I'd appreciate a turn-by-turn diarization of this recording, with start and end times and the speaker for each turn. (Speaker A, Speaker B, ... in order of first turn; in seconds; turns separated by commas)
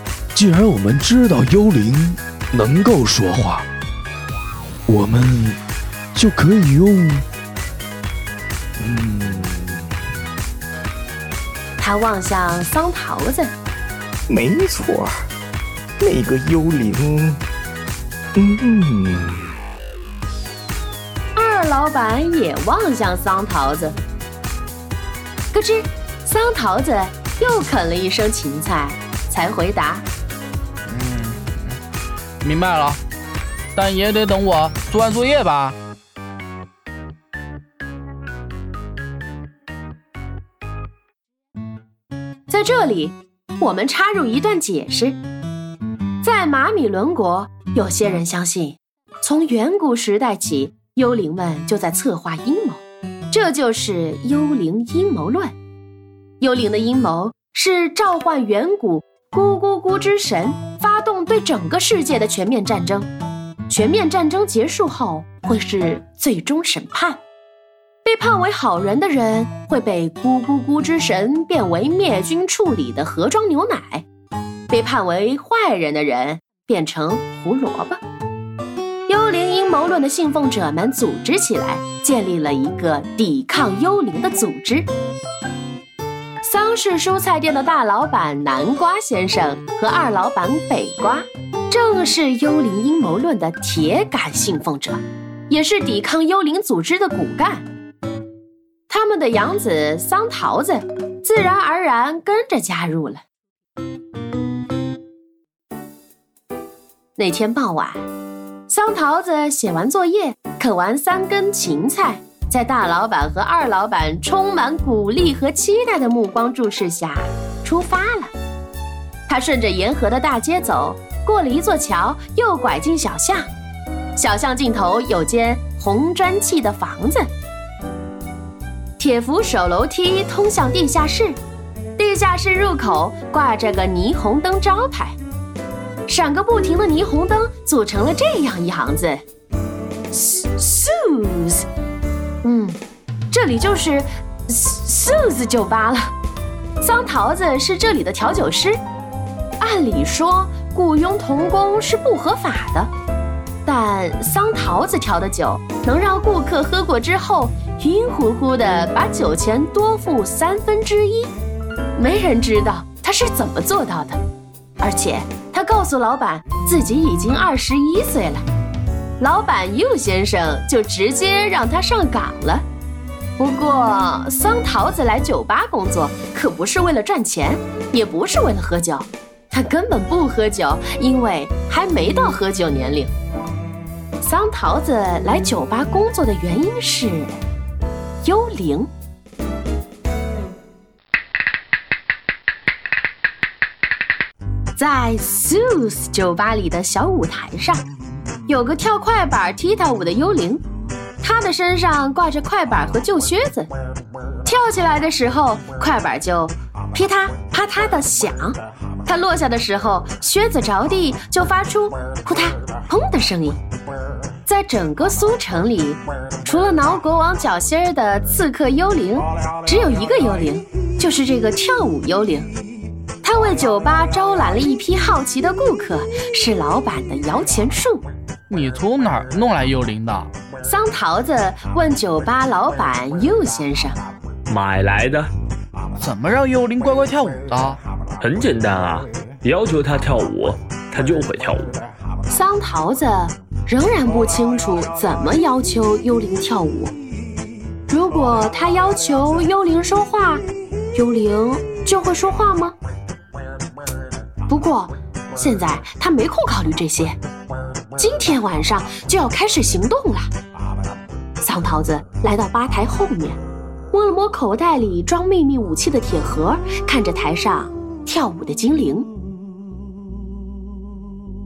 Speaker A: 0.3-3.7, Speaker A: 4.9-5.6, Speaker A: 6.2-7.2, Speaker A: 8.8-9.8, Speaker B: 11.8-13.5, Speaker C: 14.3-15.1, Speaker C: 16.0-17.4, Speaker C: 18.4-19.5, Speaker B: 21.4-24.0, Speaker B: 25.5-30.1, Speaker D: 30.9-31.8, Speaker D: 32.4-33.0, Speaker D: 33.8-35.8, Speaker B: 42.5-45.2, Speaker B: 46.2-55.5, Speaker B: 56.4-63.1, Speaker B: 63.7-67.2, Speaker B: 68.0-74.1, Speaker B: 74.7-78.0, Speaker B: 79.1-84.9, Speaker B: 86.4-97.7, Speaker B: 98.9-103.2, Speaker B: 107.2-108.0, Speaker B: 108.7-118.3, Speaker B: 119.3-123.5, Speaker B: 124.2-127.3, Speaker B: 129.0-131.4, Speaker B: 132.0-135.2, Speaker B: 136.1-139.2, Speaker B: 140.1-141.7, Speaker B: 142.4-142.8, Speaker B: 143.3-146.1, Speaker B: 146.8-148.8, Speaker B: 149.6-152.9, Speaker B: 153.7-161.3, Speaker B: 162.0-164.2, Speaker B: 164.8-168.4, Speaker B: 169.2-172.7, Speaker B: 173.4-183.1, Speaker B: 184.2-187.4, Speaker B: 188.2-188.9, Speaker B: 194.8-197.8, Speaker B: 198.5-200.6, Speaker B: 201.2-203.7, Speaker B: 204.4-213.6, Speaker B: 214.5-222.5, Speaker B: 223.2-228.1, Speaker D: 228.5-230.3, Speaker B: 230.6-234.0, Speaker E: 234.5-235.3, Speaker D: 236.0-237.8, Speaker E: 238.2-241.8, Speaker B: 242.3-246.9, Speaker B: 247.9-250.4, Speaker B: 250.9-252.8, Speaker B: 254.5-257.2, Speaker B: 258.0-260.3, Speaker B: 261.4-263.4, Speaker B: 263.9-269.1